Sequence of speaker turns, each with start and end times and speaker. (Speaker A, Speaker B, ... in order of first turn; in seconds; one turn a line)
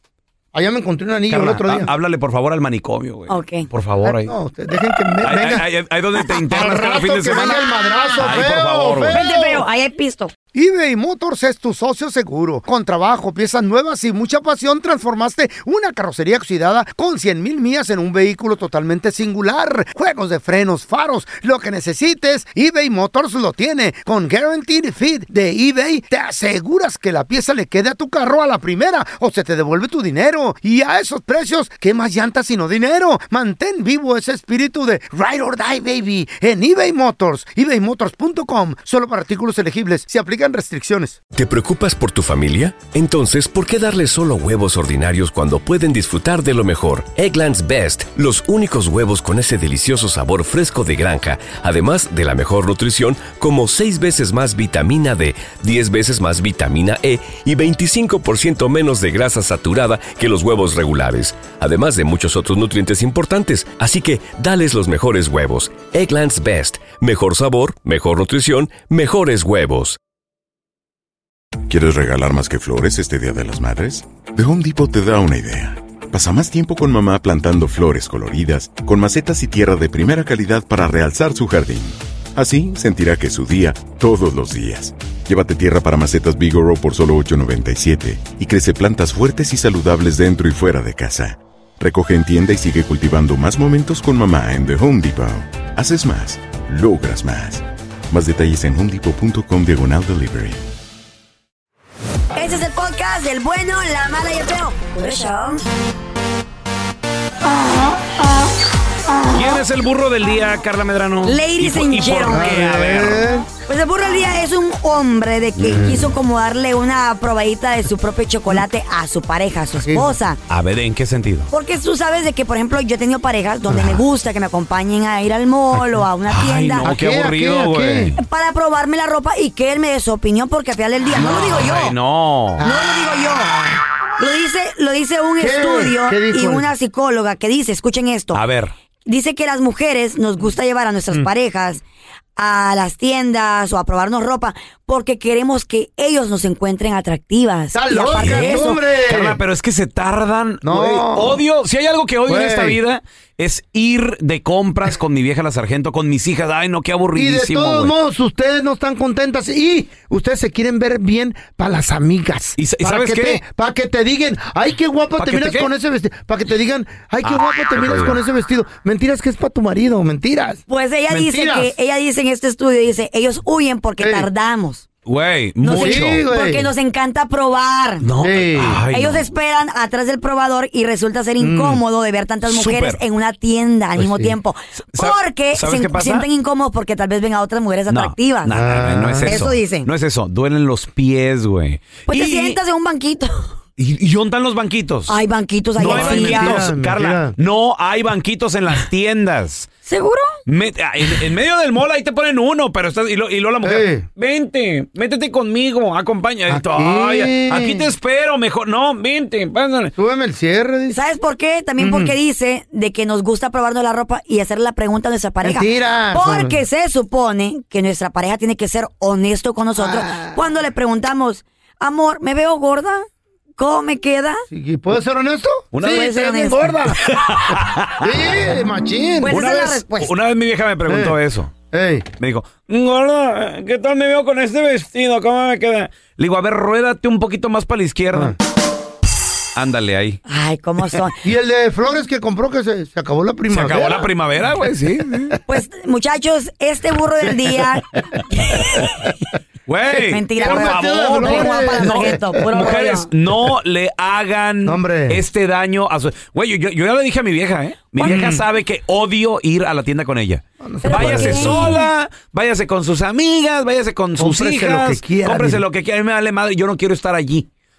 Speaker A: 0.5-1.9
Speaker B: 1.3-4.3
Speaker C: 3.3-3.7
Speaker A: 4.0-5.6
Speaker B: 5.2-7.6
Speaker C: 6.3-8.4
Speaker A: 6.5-9.7
Speaker B: 8.2-9.2
Speaker C: 9.1-10.3
Speaker A: 10.5-41.2
Speaker D: 41.3-70.0
Speaker E: 71.7-100.6
Speaker C: 102.3-105.6
Speaker C: 107.6-108.5
Speaker C: 109.1-109.4
Speaker B: 109.3-113.3
Speaker C: 111.2-112.5
Speaker A: 112.3-113.5
Speaker C: 113.7-120.4
Speaker A: 115.6-116.0
Speaker A: 119.8-120.1
Speaker B: 120.5-121.5
Speaker C: 121.5-126.9
Speaker A: 123.7-124.0
Speaker B: 126.3-128.2
Speaker A: 126.8-128.2
Speaker C: 128.2-131.9
Speaker B: 131.2-132.6
Speaker A: 132.6-133.8
Speaker C: 132.6-133.5
Speaker C: 134.2-138.4
Speaker A: 135.4-136.7
Speaker B: 138.3-138.7
Speaker C: 139.1-141.8
Speaker C: 142.4-148.8
Speaker A: 147.7-149.4
Speaker B: 148.1-157.9
Speaker A: 150.6-151.4
Speaker A: 152.3-152.8
Speaker A: 157.2-171.7
Speaker B: 162.6-163.4
Speaker B: 165.2-165.7
Speaker B: 167.2-168.2
Speaker C: 170.7-174.8
Speaker A: 174.0-174.3
Speaker B: 175.1-176.2
Speaker C: 175.6-178.1
Speaker A: 175.7-176.7
Speaker B: 178.0-179.2
Speaker A: 178.2-178.8
Speaker C: 178.9-188.6
Speaker A: 181.4-181.8
Speaker B: 182.5-183.0
Speaker B: 184.0-184.3
Speaker B: 184.9-186.3
Speaker B: 187.9-192.6
Speaker A: 188.5-189.4
Speaker C: 189.2-189.9
Speaker C: 192.1-193.5
Speaker B: 193.8-195.2
Speaker C: 195.1-196.6
Speaker A: 195.8-197.3
Speaker B: 195.8-199.7
Speaker C: 199.8-200.3
Speaker B: 200.5-209.9
Speaker A: 203.6-204.0
Speaker A: 206.5-207.8
Speaker A: 210.0-211.0
Speaker C: 210.9-223.1
Speaker A: 211.8-212.1
Speaker A: 215.4-216.6
Speaker A: 219.8-220.4
Speaker C: 223.6-224.4
Speaker A: 224.5-229.4
Speaker B: 225.7-226.1
Speaker C: 225.8-226.8
Speaker B: 227.1-228.4
Speaker C: 229.2-230.1
Speaker B: 229.3-231.5
Speaker A: 230.9-231.2
Speaker A: 231.7-232.1
Speaker B: 232.2-238.4
Speaker B: 239.6-240.2
Speaker C: 240.3-241.2
Speaker A: 241.2-244.1
Speaker B: 243.5-245.3
Speaker C: 245.5-247.9
Speaker A: 247.2-247.6
Speaker C: 248.5-248.8
Speaker A: 248.5-249.1
Speaker B: 249.7-267.5
Speaker C: 250.1-253.1
Speaker A: 250.4-252.5
Speaker A: 254.7-255.2
Speaker A: 258.0-258.4
Speaker A: 260.6-261.8
Speaker C: 260.8-261.8
Speaker A: 264.2-265.6